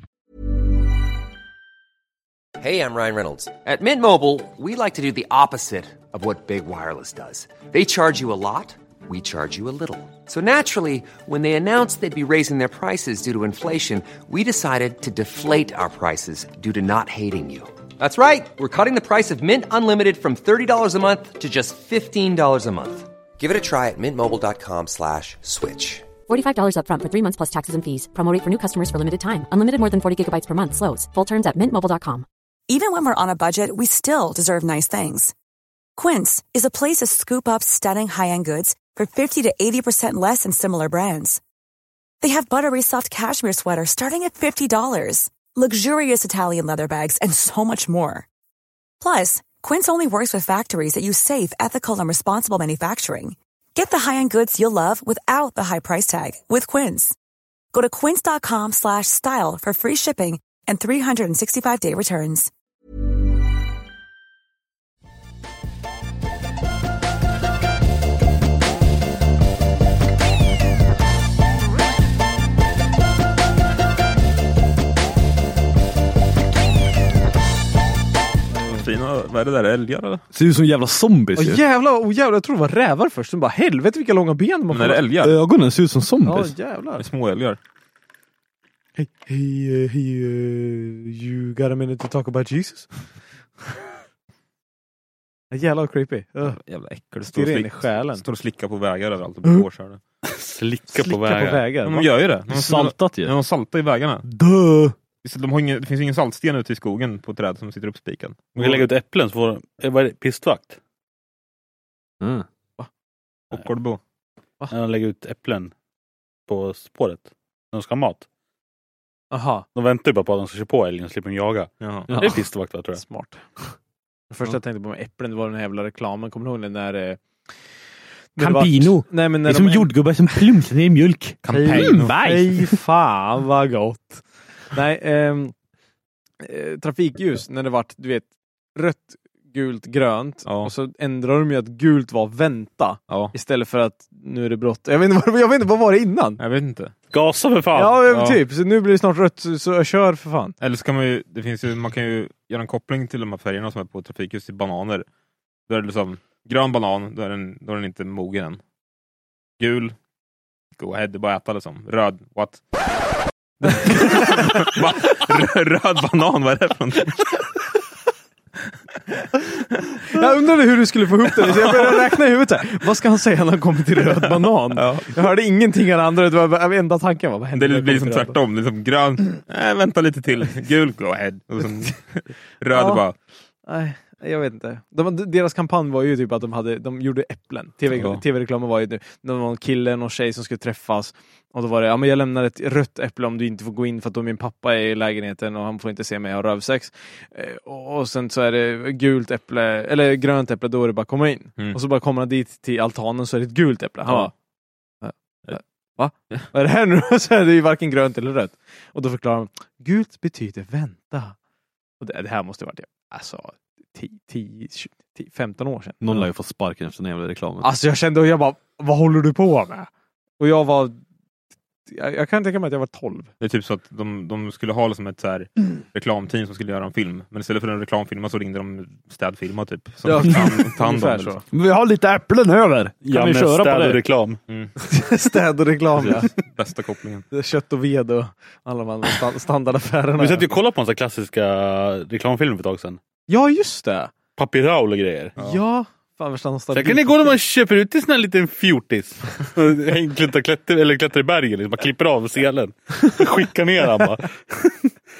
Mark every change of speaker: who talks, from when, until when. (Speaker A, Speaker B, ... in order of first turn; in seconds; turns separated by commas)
Speaker A: 2.6-26.1, Speaker B: 26.3-32.2, Speaker C: 32.7-35.3, Speaker C: 36.0-41.4, Speaker C: 42.2-48.2, Speaker C: 49.0-57.1, Speaker C: 57.7-62.5, Speaker D: 78.5-78.8, Speaker E: 78.7-80.2, Speaker F: 80.3-81.6, Speaker D: 81.3-85.0, Speaker E: 84.7-85.3, Speaker F: 85.2-86.5, Speaker D: 86.2-87.0, Speaker E: 87.0-87.6, Speaker D: 89.0-93.1, Speaker D: 95.5-96.6, Speaker E: 96.5-100.0, Speaker D: 97.3-98.2, Speaker G: 100.2-101.6, Speaker D: 100.9-102.1, Speaker E: 101.8-104.2, Speaker F: 102.5-103.3, Speaker F: 104.3-104.9, Speaker E: 105.2-108.8, Speaker G: 108.6-110.8, Speaker F: 112.2-112.5, Speaker E: 113.5-114.0, Speaker G: 114.7-115.7, Speaker G: 116.5-118.2, Speaker D: 119.3-119.7, Speaker G: 119.7-123.0, Speaker E: 121.8-122.1, Speaker F: 122.1-122.4, Speaker D: 122.9-123.5, Speaker D: 124.3-127.2, Speaker D: 128.3-130.5, Speaker F: 128.4-132.7, Speaker E: 131.4-132.2, Speaker D: 131.5-135.5, Speaker D: 136.4-146.4, Speaker E: 140.4-140.7, Speaker E: 146.4-146.9, Speaker G: 147.1-148.1, Speaker D: 147.7-150.6, Speaker E: 148.1-148.4, Speaker E: 150.6-155.1, Speaker E: 155.7-158.6, Speaker E: 159.6-159.9, Speaker E: 160.8-162.6, Speaker E: 163.6-167.4, Speaker D: 170.0-178.4, Speaker E: 174.7-175.1, Speaker E: 177.5-183.1, Speaker D: 182.7-183.0, Speaker D: 183.7-204.3, Speaker E: 187.9-188.2, Speaker D: 205.0-211.3, Speaker D: 212.0-216.3, Speaker F: 216.0-217.7, Speaker D: 217.6-221.0, Speaker D: 221.9-223.3, Speaker E: 223.4-231.4, Speaker F: 230.0-230.7, Speaker D: 230.3-231.4, Speaker F: 231.5-234.0, Speaker G: 233.0-234.4, Speaker D: 234.9-236.3, Speaker E: 235.9-237.3, Speaker D: 237.3-240.5, Speaker G: 240.2-243.0, Speaker D: 243.3-244.1, Speaker G: 244.4-245.3, Speaker D: 245.4-247.4, Speaker G: 246.7-254.9